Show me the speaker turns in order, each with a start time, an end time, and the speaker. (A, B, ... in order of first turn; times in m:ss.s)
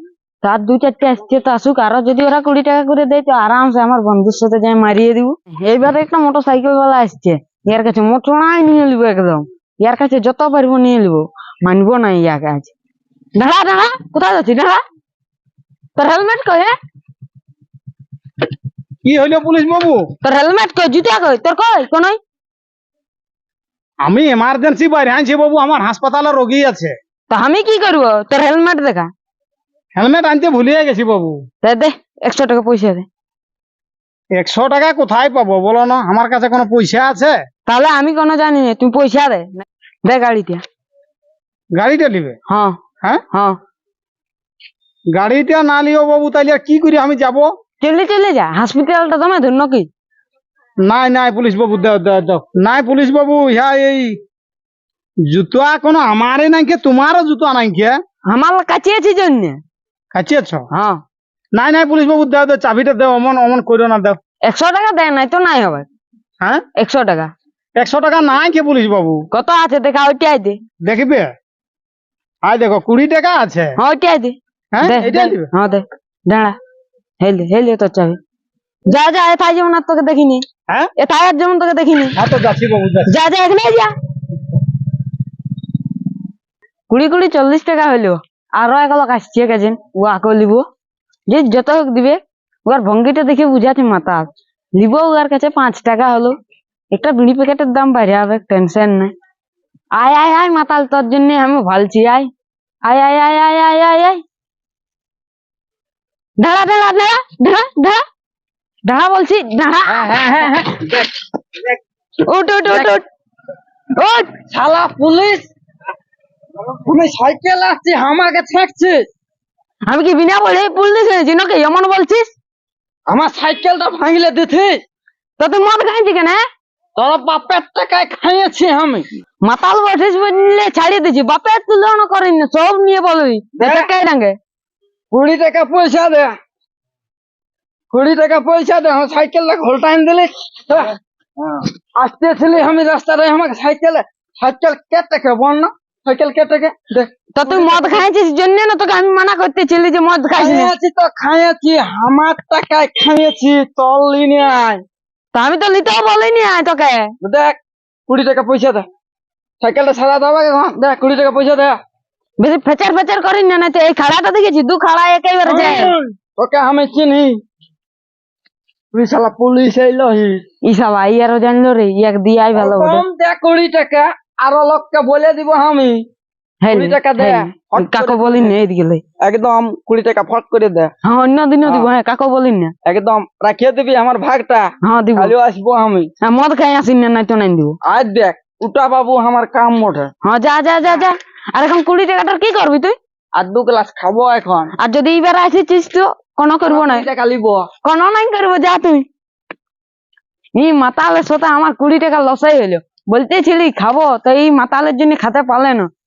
0:00.4-0:12.7 A
0:13.4-0:14.8 A
0:16.0-0:16.7 A
0:19.0-0:20.0 B
0:20.2-0:22.2 A
0:24.0-0:26.9 B
0:27.3-0:29.1 A
0:30.0-0:31.4 B
0:31.6-0:33.1 A
0:34.3-0:37.4 B
0:37.7-0:40.6 A
0:41.7-0:42.4 B
0:42.5-0:42.8 A
0:43.3-0:43.6 A
0:45.1-0:47.5 B
0:47.8-0:49.9 A
0:50.8-0:54.2 B
0:55.3-0:58.0 B
0:58.3-0:59.6 A
1:00.1-1:00.6 B
1:00.7-1:01.0 A
1:01.5-1:04.2 B
1:04.4-1:05.9 A
1:06.8-1:07.3 A
1:07.8-1:09.2 B
1:09.3-1:10.6 A
1:10.8-1:11.3 B
1:12.4-1:13.8 B
1:13.8-1:16.5 A
1:14.7-1:15.5 B
1:17.2-1:18.2 A
1:18.9-1:20.4 A
1:21.0-1:22.2 A
1:22.1-1:23.1 B
1:23.1-1:23.9 A
1:26.9-1:30.6 A
1:31.3-1:36.3 A
1:36.9-1:39.1 A
1:40.0-1:42.3 A
1:42.8-1:44.2 A
1:46.4-1:48.0 A
1:48.9-1:50.1 A
1:49.9-1:51.8 C
1:52.2-1:53.0 A
1:54.0-1:54.3 A
1:54.5-1:55.5 C
1:56.6-1:59.1 C
1:59.9-2:02.3 A
2:03.1-2:04.8 C
2:05.4-2:06.4 A
2:07.0-2:09.1 C
2:09.4-2:14.4 A
2:13.6-2:13.9 C
2:15.1-2:16.3 C
2:17.9-2:28.0 C
2:27.4-2:30.7 A
2:30.3-2:34.8 C
2:35.3-2:37.1 A
2:37.2-2:37.6 C
2:38.1-2:38.8 C
2:39.6-2:41.8 C
2:42.4-2:45.9 A
2:45.4-2:47.4 C
2:48.9-2:50.4 C
2:50.6-2:53.0 A
2:52.6-2:56.0 C
2:56.6-2:59.0 A
2:56.7-2:58.5 C
2:59.2-3:00.9 C
3:01.0-3:02.7 A
3:01.6-3:01.9 C
3:02.8-3:06.1 C
3:04.8-3:05.3 A
3:06.2-3:07.8 A
3:07.8-3:10.1 C
3:10.2-3:13.0 A
3:13.3-3:14.7 C
3:14.8-3:17.1 A
3:16.7-3:17.7 C
3:17.8-3:19.0 A
3:20.5-3:25.9 A